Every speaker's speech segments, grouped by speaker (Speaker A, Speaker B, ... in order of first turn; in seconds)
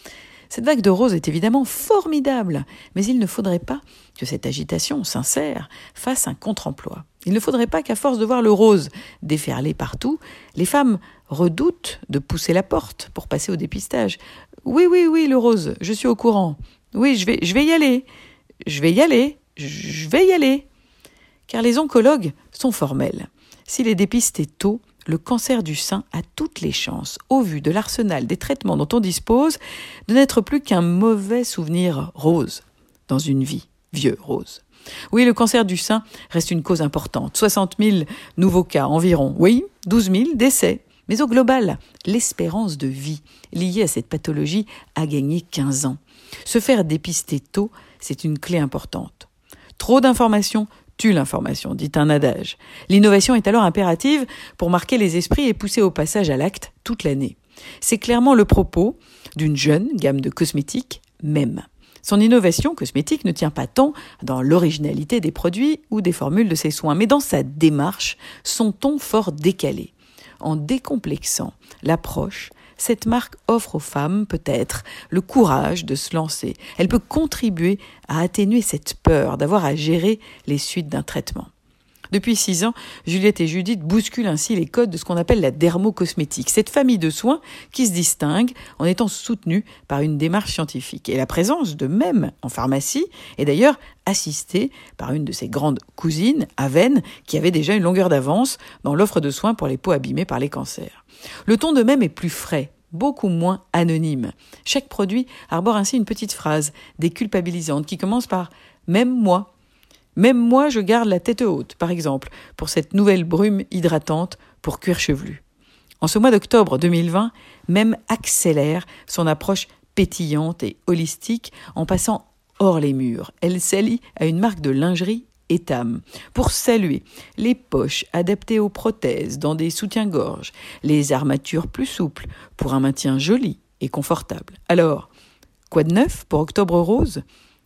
Speaker A: 0.5-18.1, 18.6-20.6, 21.5-81.5, 82.1-109.5, 110.2-115.4, 116.0-135.1, 135.7-137.2